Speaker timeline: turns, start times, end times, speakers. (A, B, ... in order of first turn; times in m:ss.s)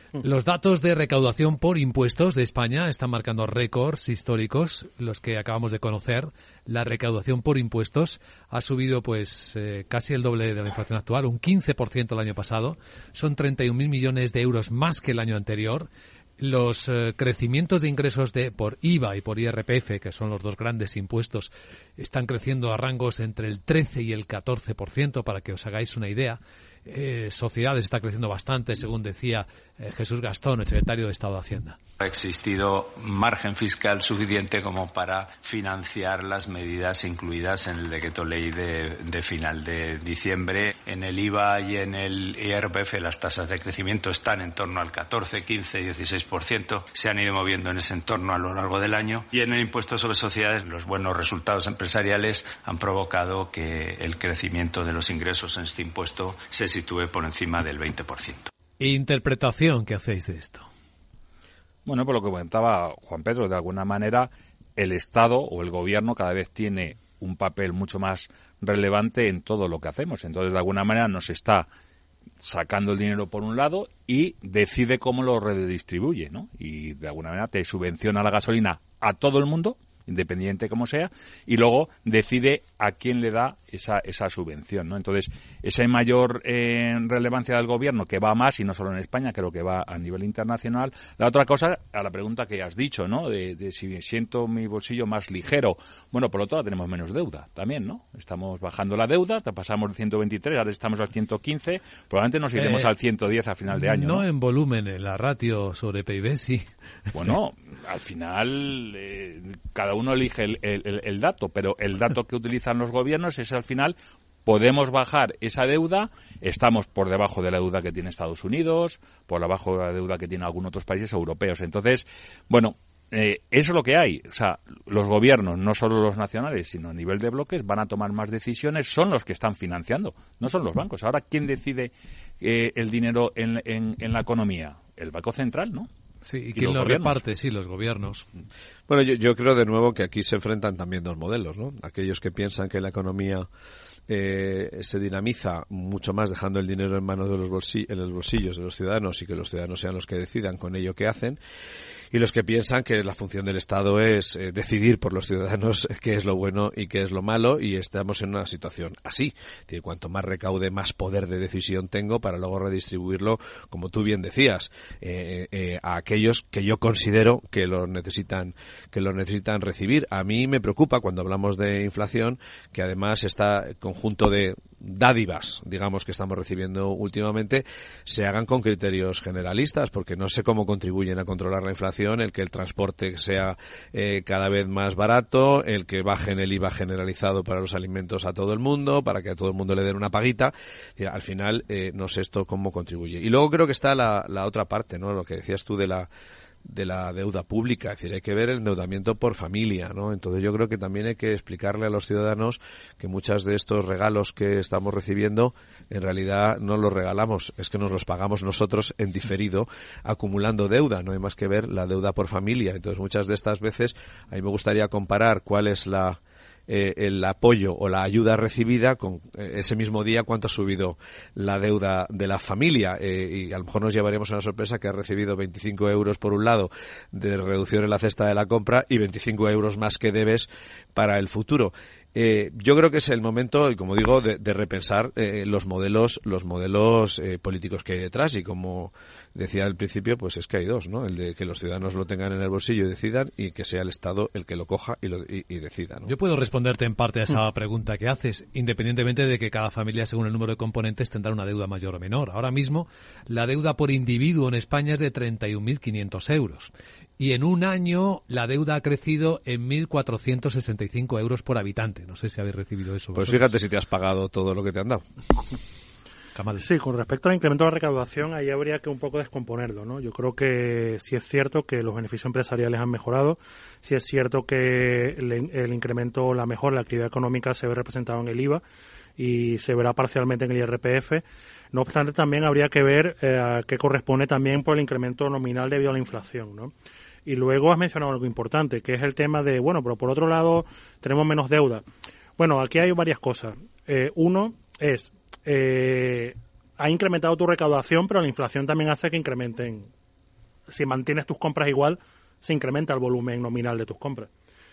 0:00.2-0:31.8 A
0:32.0-0:58.5 B
0:58.8-1:00.7 A
1:01.8-1:11.7 C
1:12.4-1:44.2 C
1:42.5-1:42.9 A
1:43.7-1:46.7 A
1:47.1-2:15.9 C
2:16.2-2:18.2 A
2:16.5-2:17.2 C
2:18.9-2:23.5 D
2:24.1-2:31.4 D
2:32.1-3:16.1 D
3:16.6-4:06.1 D
4:06.0-4:23.5 A
4:23.1-4:25.0 D
4:26.4-4:26.6 A
4:26.6-4:38.6 E
4:39.2-4:46.7 E
4:47.2-4:51.8 E
4:52.4-4:59.9 E
5:00.7-5:04.3 E